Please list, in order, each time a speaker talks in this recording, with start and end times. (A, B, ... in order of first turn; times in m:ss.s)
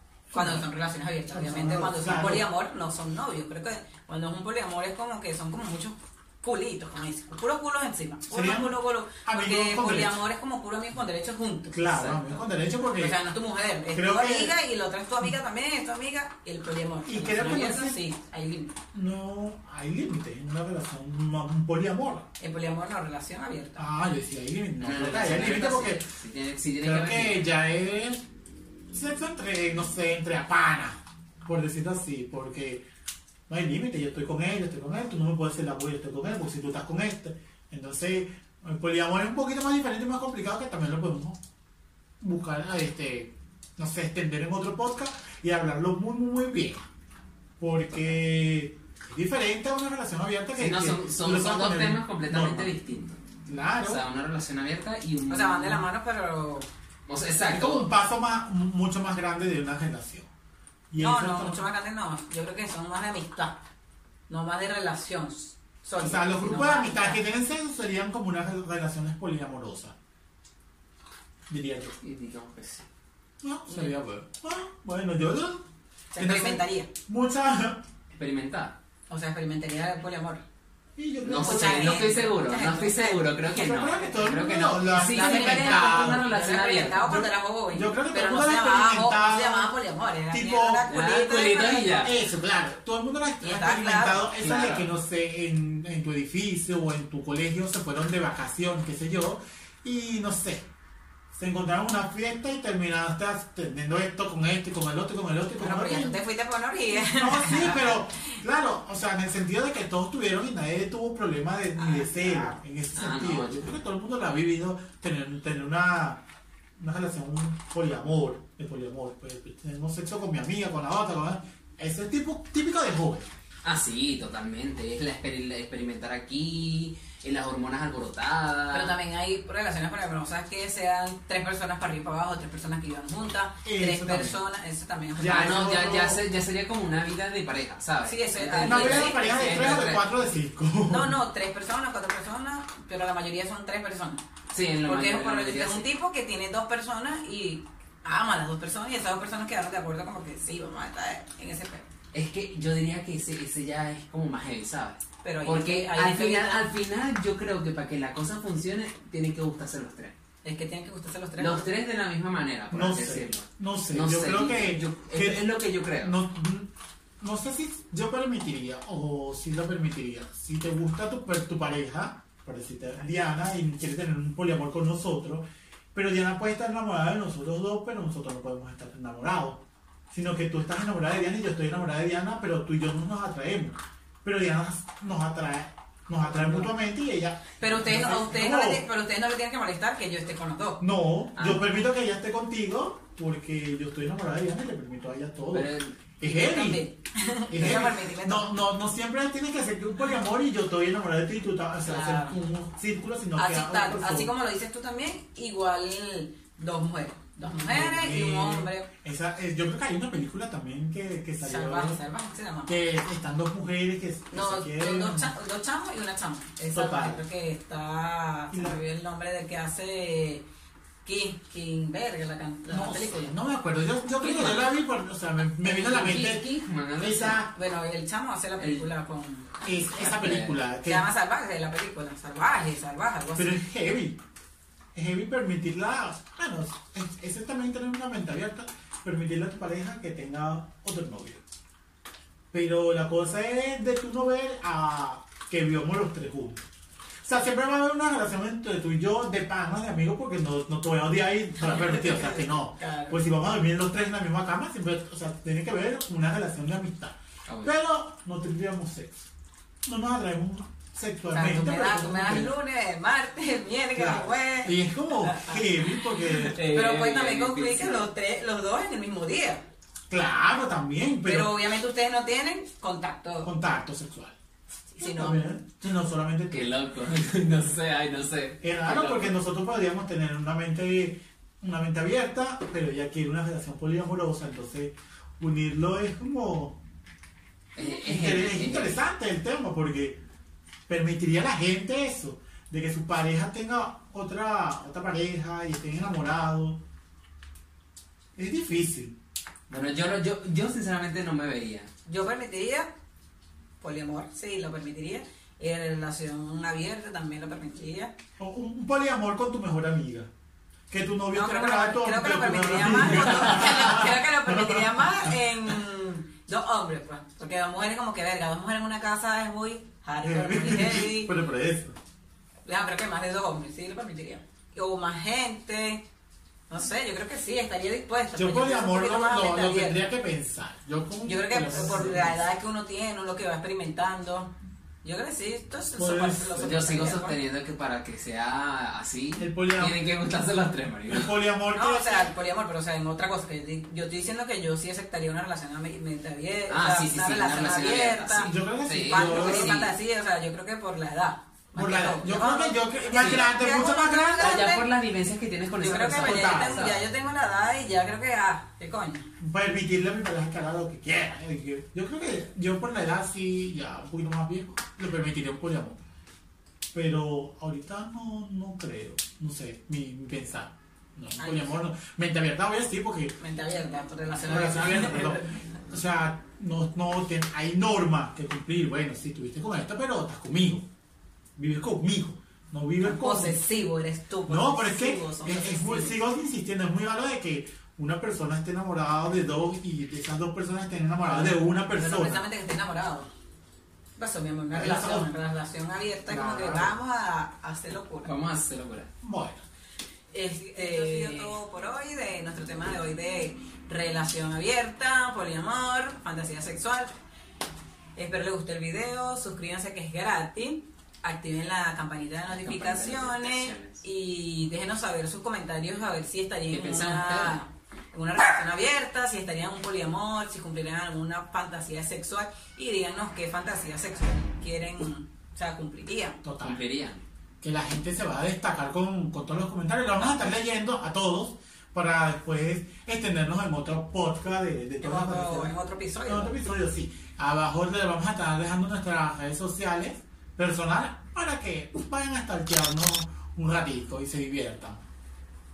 0:00.3-0:00.6 A
0:00.3-0:12.3 B
0:01.3-0:02.4 A
0:08.3-0:10.2 A
0:11.7-0:13.2 A
0:13.0-0:18.8 B
0:13.9-0:14.5 A
0:17.0-0:18.0 A
0:18.9-0:22.3 A
0:22.4-0:23.9 B
0:23.8-0:26.0 A
0:24.8-0:27.4 C
0:26.8-0:28.2 A
0:28.9-0:32.8 A
0:33.5-0:41.4 A
0:42.2-0:46.9 A
0:47.6-0:52.7 A
0:47.9-0:48.2 C
0:50.6-0:53.2 C
0:53.4-0:54.0 A
0:53.8-0:55.8 C
0:55.3-0:56.7 B
0:57.1-0:57.9 C
0:57.5-1:00.3 A
1:00.9-1:01.6 A
1:01.0-1:03.6 B
1:04.3-1:07.2 B
1:06.0-1:09.9 A
1:11.5-1:12.0 A
1:12.0-1:12.8 C
1:13.4-1:15.6 A
1:13.7-1:13.9 B
1:16.1-1:16.9 B
1:16.2-1:17.8 A
1:18.1-1:18.7 C
1:19.1-1:20.4 B
1:21.0-1:22.1 A
1:21.2-1:27.2 C
1:21.4-1:23.4 B
1:23.5-1:26.3 A
1:25.1-1:32.1 B
1:27.0-1:29.7 A
1:30.3-1:30.8 A
1:30.9-1:32.1 C
1:32.0-1:40.7 A
1:33.4-1:34.2 B
1:34.4-1:34.9 C
1:41.3-1:46.2 A
1:45.6-1:47.9 B
1:46.9-1:56.2 A
1:51.8-1:52.5 B
1:52.9-1:53.7 C
1:56.8-2:03.2 A
2:03.6-2:08.9 C
2:08.7-2:15.9 B
2:13.6-2:14.4 A
2:15.2-2:16.2 A
2:15.2-2:20.0 C
2:18.0-2:19.9 B
2:18.6-2:21.2 A
2:20.9-2:24.2 B
2:24.5-2:25.9 C
2:24.8-2:31.8 B
2:32.1-2:40.1 C
2:35.2-2:36.7 B
2:40.4-2:41.6 B
2:41.4-2:46.1 C
2:42.7-2:45.4 A
2:46.0-3:08.8 A
3:06.3-3:06.7 C
3:07.6-3:10.8 B
3:10.8-3:16.8 A
3:11.3-3:11.7 C
3:15.5-3:16.0 C
3:16.2-3:18.5 B
3:17.5-3:24.3 A
3:21.8-3:22.4 B
3:23.4-3:28.9 B
3:27.7-3:32.0 A
3:31.4-3:32.7 B
3:32.7-3:35.3 A
3:34.3-3:40.4 B
3:36.7-3:37.2 A
3:38.5-3:38.8 A
3:41.0-3:43.3 B
3:42.7-3:47.5 A
3:44.2-3:44.7 C
3:45.6-3:47.4 C
3:47.5-3:49.5 B
3:48.6-3:48.8 C
3:49.6-3:51.0 A
3:49.9-3:50.6 C
3:50.8-3:53.6 B
3:53.4-3:54.2 A
3:54.9-4:01.4 A
4:02.5-4:06.6 A
4:07.2-4:19.2 A
4:11.6-4:13.2 B
4:17.5-4:17.7 C
4:19.8-4:22.6 A
4:21.3-4:25.6 B
4:23.9-4:26.6 A
4:26.2-4:28.1 C
4:26.7-4:29.6 B
4:30.1-4:31.7 A
4:31.2-4:33.5 B
4:33.4-4:34.4 A
4:34.9-4:35.5 B
4:35.0-4:37.5 A
4:36.5-4:39.4 C
4:38.6-4:46.8 A
4:47.8-4:49.0 C
4:47.8-4:50.2 A
4:50.9-4:56.8 A
4:58.4-4:59.1 A
4:59.7-5:01.9 C
5:02.0-5:02.9 B
5:03.8-5:08.1 B
5:08.4-5:10.3 A
5:10.9-5:15.5 A
5:11.3-5:21.3 B
5:20.2-5:21.9 A
5:22.6-5:26.0 B
5:26.7-5:30.0 B
5:28.4-5:32.4 A
5:31.2-5:34.5 B
5:35.0-5:37.4 B
5:35.9-5:37.2 A
5:36.6-5:41.3 C
5:39.4-5:40.0 A
5:41.1-5:42.3 A
5:41.7-5:48.5 B
5:46.7-5:49.9 C
5:48.5-5:49.8 A
5:49.0-5:54.8 B
5:51.7-5:54.6 A
5:53.2-5:53.4 C
5:54.4-5:57.0 C
5:55.8-5:59.3 B
5:56.2-5:56.8 A
5:59.4-6:06.0 A
6:06.9-6:13.4 A
6:11.4-6:11.8 B
6:13.4-6:15.4 B
6:14.4-6:20.8 A
6:21.6-6:23.6 A
6:23.0-6:26.2 B
6:24.5-6:32.4 A
6:31.2-6:33.3 B
6:34.2-6:38.3 B
6:34.7-6:35.3 A
6:36.3-6:36.9 A
6:38.2-6:39.1 C
6:39.2-6:39.6 A
6:40.3-6:47.1 B
6:41.0-6:41.5 C
6:48.2-7:06.4 B
6:52.5-6:54.0 C
6:56.7-6:57.6 C
7:06.4-7:06.8 A
7:06.6-7:07.2 C
7:07.6-7:15.7 A
7:15.0-7:16.6 B
7:16.3-7:25.0 A